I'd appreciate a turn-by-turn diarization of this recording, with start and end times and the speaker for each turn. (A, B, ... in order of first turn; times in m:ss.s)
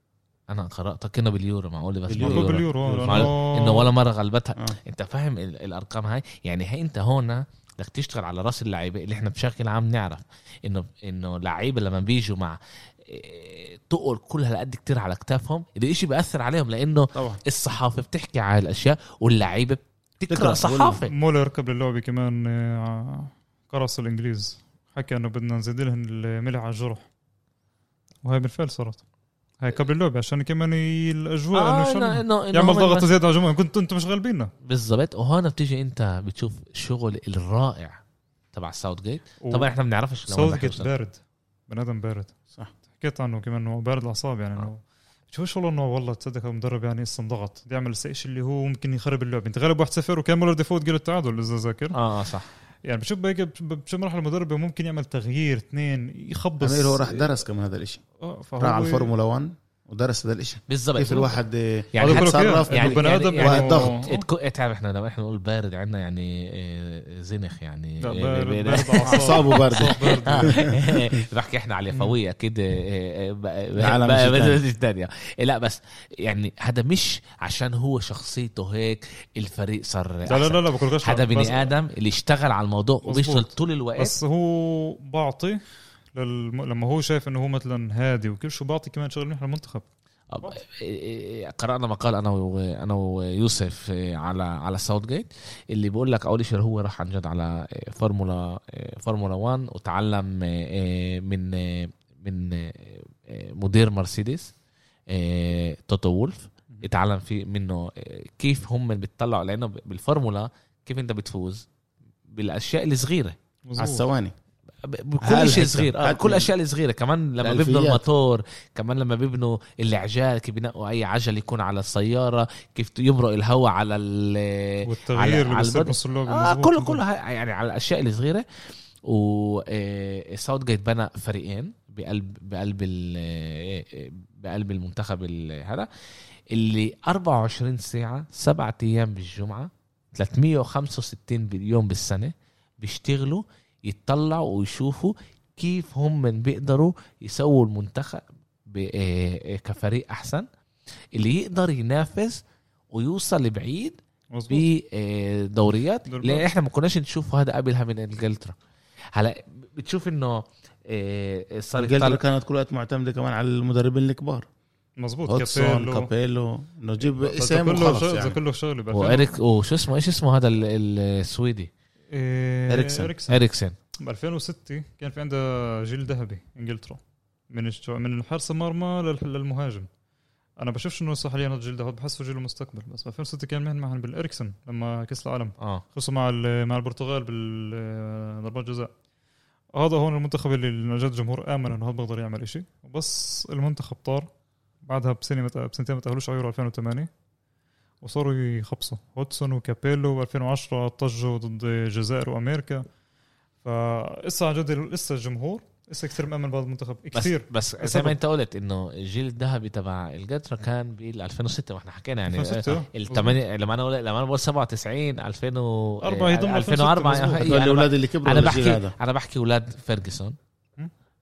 0:00.5-0:21.1 A
0:02.1-0:03.3 B
0:02.2-0:03.9 C
0:17.1-0:17.4 B
0:20.3-0:21.0 B
0:21.1-0:27.0 C
0:28.2-0:29.0 C
0:29.6-0:34.5 C
0:31.5-0:33.1 A
0:34.6-0:38.0 A
0:38.5-0:40.9 A
0:39.4-0:39.7 C
0:40.3-0:42.3 C
0:43.0-0:52.0 C
0:51.9-0:52.5 A
0:52.8-0:57.2 C
0:56.6-0:58.0 B
0:58.2-0:59.1 C
0:58.6-1:04.0 B
1:00.7-1:01.4 A
1:01.9-1:24.2 A
1:02.0-1:04.2 C
1:08.0-1:10.6 C
1:09.0-1:11.2 B
1:13.8-1:14.6 B
1:20.3-1:21.7 C
1:23.0-1:25.6 C
1:26.1-1:29.8 C
1:30.3-1:44.5 A
1:45.1-1:51.7 A
1:52.3-1:53.4 A
1:53.6-1:54.0 C
1:53.8-1:54.3 B
1:54.8-2:08.4 A
1:55.2-1:56.5 B
1:57.4-1:58.0 B
2:04.8-2:07.0 C
2:09.0-2:15.9 A
2:16.5-2:30.5 A
2:31.1-2:34.0 A
2:34.3-2:34.6 C
2:34.5-2:38.5 A
2:36.1-2:36.4 C
2:39.1-2:42.2 A
2:41.8-2:44.4 B
2:45.0-2:46.1 C
2:45.3-2:48.4 B
2:47.2-2:49.3 C
2:48.9-2:51.7 A
2:52.1-2:53.4 C
2:52.7-2:53.1 B
2:53.3-2:53.8 A
2:54.0-2:59.9 C
3:00.6-3:08.9 C
3:05.6-3:05.8 A
3:09.7-3:14.3 C
3:14.8-3:17.1 C
3:18.0-3:22.9 C
3:23.6-3:28.2 C
3:27.1-3:40.4 A
3:32.3-3:33.4 C
3:36.0-3:37.5 C
3:37.4-3:38.9 B